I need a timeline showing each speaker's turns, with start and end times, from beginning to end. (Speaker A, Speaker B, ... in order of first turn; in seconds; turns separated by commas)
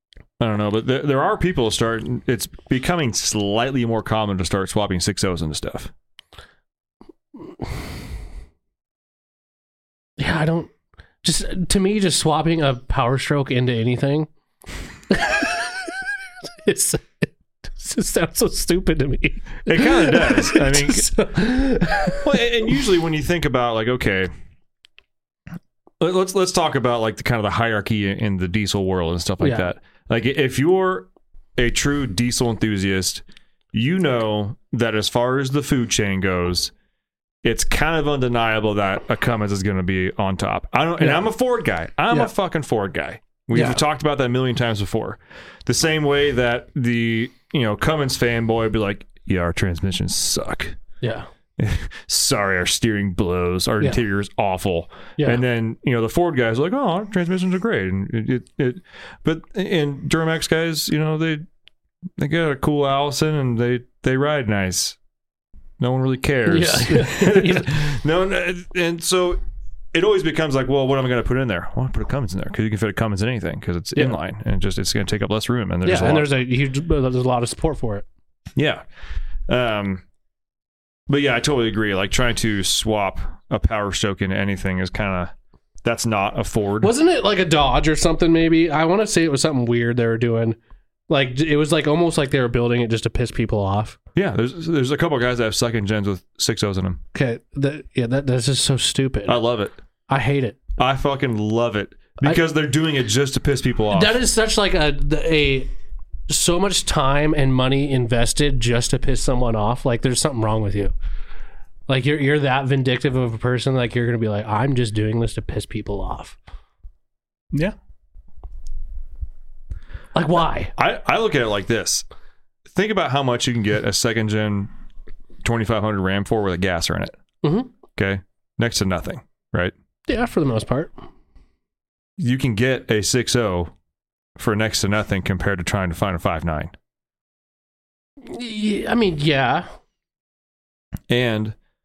Speaker A: 0.4-5.9, Speaker B: 10.2-10.7, Speaker B: 11.2-14.3, Speaker B: 15.1-15.9, Speaker B: 16.5-22.3, Speaker A: 19.6-21.1, Speaker A: 22.2-24.3, Speaker A: 26.0-36.7, Speaker B: 29.4-29.7, Speaker A: 37.4-50.8, Speaker B: 41.0-41.3, Speaker B: 43.5-43.8, Speaker B: 51.0-51.3, Speaker A: 51.6-61.5, Speaker A: 62.2-65.0, Speaker A: 65.8-69.4, Speaker B: 66.5-67.7, Speaker A: 69.9-76.3, Speaker B: 75.8-78.1, Speaker A: 78.6-78.8, Speaker A: 79.5-80.0, Speaker A: 81.1-85.3, Speaker A: 85.8-86.9, Speaker B: 86.8-90.6, Speaker B: 91.1-94.0, Speaker A: 94.2-97.0, Speaker B: 97.1-99.4, Speaker A: 99.3-99.7, Speaker B: 100.1-100.6, Speaker A: 100.8-104.2, Speaker B: 103.9-105.7, Speaker B: 106.3-110.9, Speaker B: 111.9-116.4, Speaker B: 120.1-120.7, Speaker A: 120.8-122.0, Speaker A: 122.7-124.7, Speaker A: 125.4-127.2, Speaker B: 127.4-127.7, Speaker A: 128.0-129.7, Speaker B: 130.1-130.9, Speaker A: 132.2-133.7, Speaker A: 134.4-136.7, Speaker B: 138.2-139.7, Speaker A: 141.1-141.6